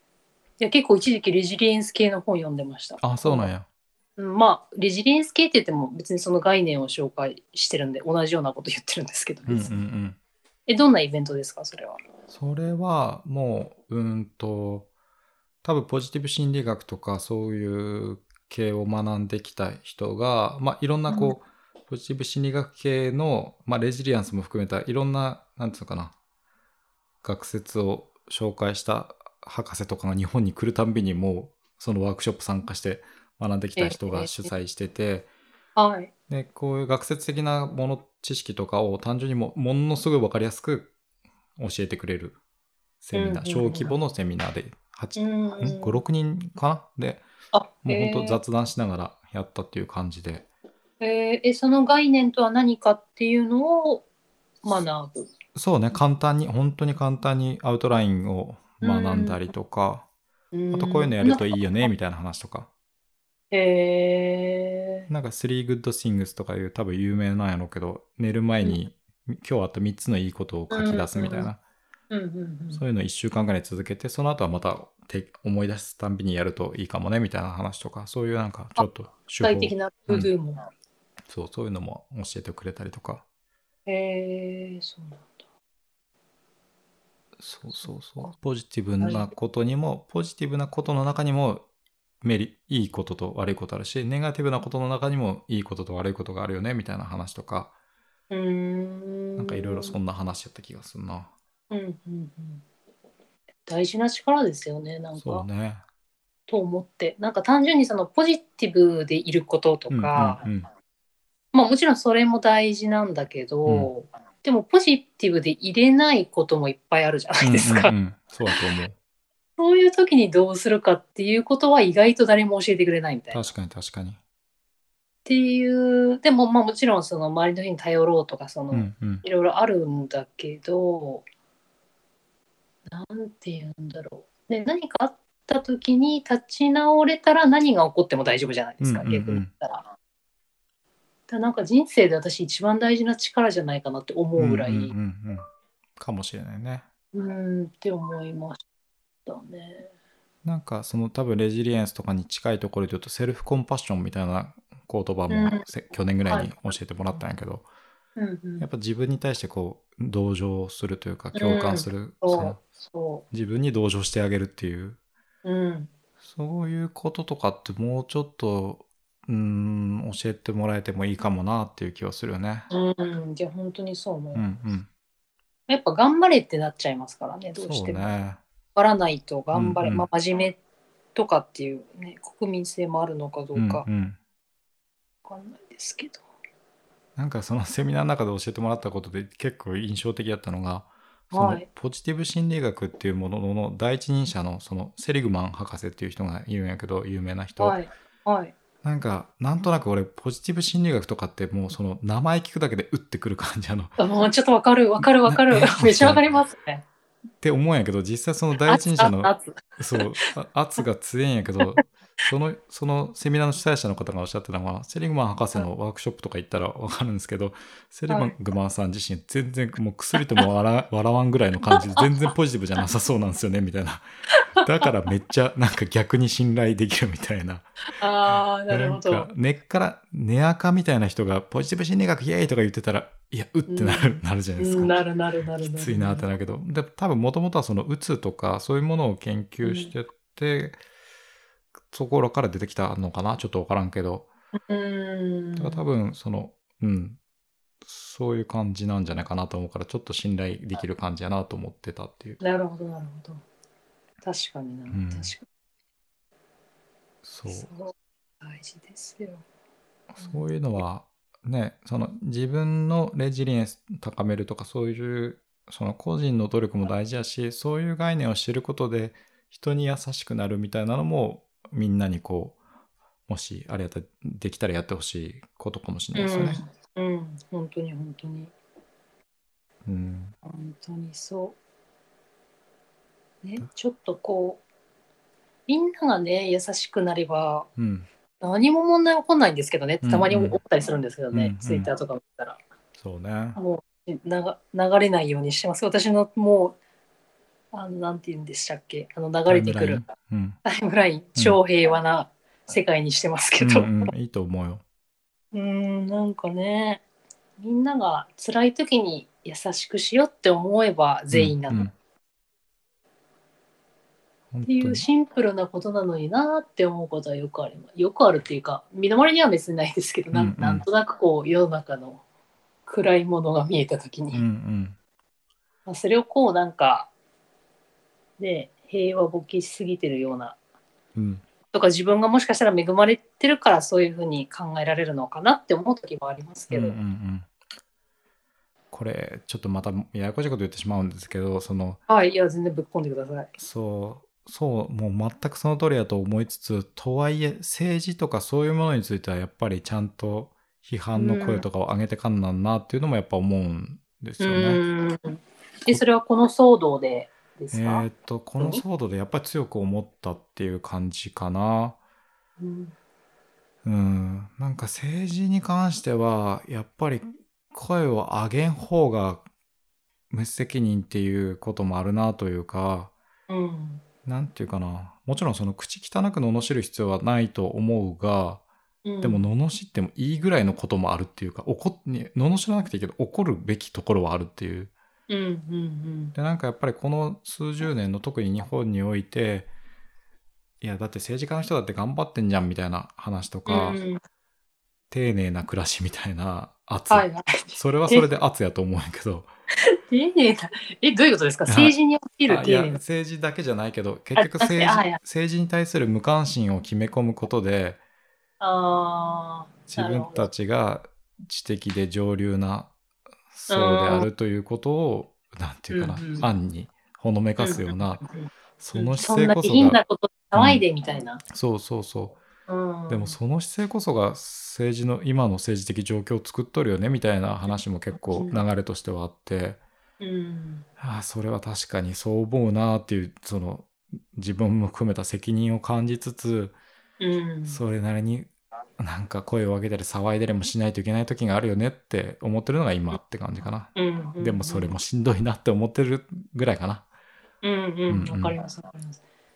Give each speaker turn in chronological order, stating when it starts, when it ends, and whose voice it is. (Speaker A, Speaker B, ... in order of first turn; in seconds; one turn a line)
Speaker A: 0.6-3.5
Speaker B: 3.0-3.6
Speaker A: 4.2-9.8
Speaker B: 9.5-10.2
Speaker A: 10.7-12.0
Speaker B: 12.3-14.9
Speaker B: 15.6-26.1
Speaker A: 21.1-21.3
Speaker B: 27.2-35.3
Speaker A: 33.8-34.5
Speaker A: 35.8-36.1
Speaker B: 36.3-40.9
Speaker B: 41.6-42.4
Speaker B: 43.0-47.2
Speaker A: 43.1-43.9
Speaker A: 45.1-46.0
Speaker A: 47.5-48.4
Speaker B: 47.8-50.5
Speaker A: 51.0-54.0
Speaker A: 54.6-55.3
Speaker B: 55.5-60.0
Speaker A: 58.8-59.4
Speaker A: 60.5-61.5
Speaker B: 60.7-62.7
Speaker A: 63.5-65.1
Speaker B: 65.1-71.6
Speaker A: 70.7-71.5
Speaker A: 72.1-72.8
Speaker B: 72.7-80.3
Speaker A: 79.4-80.7
Speaker B: 81.3-83.2
Speaker A: 83.8-85.4
Speaker B: 87.4-91.6
Speaker A: 87.7-88.3
Speaker A: 89.0-89.3
Speaker B: 92.2-97.7
Speaker A: 98.3-100.0
Speaker B: 99.4-101.3
Speaker A: 101.7-102.6
Speaker A: 103.7-105.5
Speaker B: 105.2-105.8
Speaker A: 106.5-110.4
Speaker B: 109.9-110.7
Speaker A: 111.5-117.9
Speaker B: 117.4-118.9
Speaker A: 119.6-123.4
Speaker B: 123.3-124.2
Speaker A: 125.2-131.2
Speaker B: 128.7-129.2
Speaker A: 132.9-139.8
Speaker B: 138.8-139.5
Speaker A: 141.3-144.9
Speaker B: 144.4-145.4
Speaker B: 146.0-146.8
Speaker A: 147.1-148.6
Speaker A: 149.2-149.9
Speaker B: 150.4-157.6
Speaker A: 155.3-155.7
Speaker A: 156.3-156.5
Speaker A: 158.2-158.7
Speaker B: 158.6-162.6
Speaker A: 161.3-163.2
Speaker B: 163.3-165.0
Speaker A: 165.4-165.9
Speaker B: 166.2-172.7
Speaker A: 172.7-174.4
Speaker B: 174.3-174.9
Speaker A: 175.7-178.1
Speaker B: 177.6-178.4
Speaker A: 178.7-180.6
Speaker B: 179.5-180.1
Speaker A: 181.1-183.8
Speaker B: 183.5-184.2
Speaker A: 185.2-186.2
Speaker B: 187.2-197.8
Speaker A: 191.3-191.7
Speaker A: 197.6-198.5
Speaker B: 198.8-203.9
Speaker A: 204.0-206.8
Speaker B: 205.0-206.2
Speaker B: 207.4-224.0
Speaker A: 208.6-210.3
Speaker A: 218.1-218.3
Speaker A: 221.7-222.1
Speaker A: 224.5-224.8
Speaker B: 224.6-227.7
Speaker A: 227.9-229.3
Speaker B: 228.3-235.0
Speaker A: 233.7-236.3
Speaker B: 235.6-240.8
Speaker A: 239.6-239.9
Speaker B: 241.9-244.3
Speaker A: 244.7-245.8
Speaker B: 245.6-247.2
Speaker B: 247.8-252.4
Speaker A: 252.4-253.4
Speaker A: 254.2-255.4
Speaker B: 254.9-255.3
Speaker B: 257.2-257.7
Speaker A: 257.5-259.4
Speaker B: 260.1-272.6
Speaker B: 273.3-276.6
Speaker A: 276.1-278.5
Speaker B: 279.8-280.3
Speaker A: 280.4-281.6
Speaker A: 283.4-284.6
Speaker A: 285.7-287.7
Speaker B: 287.8-288.1
Speaker A: 288.4-292.6
Speaker B: 290.0-290.6
Speaker B: 291.3-291.9
Speaker B: 293.0-293.6
Speaker A: 293.6-296.8
Speaker A: 297.7-300.0
Speaker B: 299.5-300.6
Speaker A: 300.6-304.1
Speaker B: 303.6-304.8
Speaker A: 305.5-307.0
Speaker A: 307.6-311.9
Speaker B: 311.3-311.9
Speaker B: 314.5-315.0
Speaker A: 314.6-322.2
Speaker B: 320.3-320.8
Speaker A: 322.9-324.4
Speaker B: 324.3-324.9
Speaker A: 325.9-327.1
Speaker A: 328.4-330.6
Speaker B: 331.1-331.4
Speaker A: 331.7-336.9
Speaker B: 336.7-337.5
Speaker B: 338.9-342.0
Speaker A: 342.1-343.5
Speaker B: 343.6-354.8
Speaker A: 351.1-351.6
Speaker A: 354.4-358.1
Speaker B: 357.7-362.0
Speaker A: 362.6-362.9
Speaker B: 363.8-369.4
Speaker B: 370.3-373.1
Speaker A: 373.5-374.0
Speaker B: 374.2-378.6
Speaker A: 379.0-379.4
Speaker B: 379.2-384.9
Speaker A: 385.3-386.3
Speaker B: 386.3-389.7
Speaker B: 390.8-394.0
Speaker A: 393.7-394.2
Speaker B: 395.1-399.5
Speaker A: 397.1-398.3
Speaker A: 400.1-403.0
Speaker B: 401.7-401.9
Speaker B: 402.5-408.0
Speaker A: 404.4-405.2
Speaker A: 408.6-410.5
Speaker B: 409.9-412.9
Speaker B: 413.5-418.2
Speaker A: 413.7-414.3
Speaker A: 415.9-416.5
Speaker A: 417.6-421.4
Speaker B: 418.8-420.0
Speaker B: 420.5-420.8
Speaker B: 421.5-422.4
Speaker A: 422.7-423.4
Speaker B: 423.1-429.8
Speaker A: 428.3-428.6
Speaker A: 430.2-430.9
Speaker B: 431.0-436.7
Speaker A: 437.2-437.8
Speaker B: 437.6-447.0
Speaker A: 443.9-445.0
Speaker A: 447.6-449.2
Speaker B: 448.1-448.5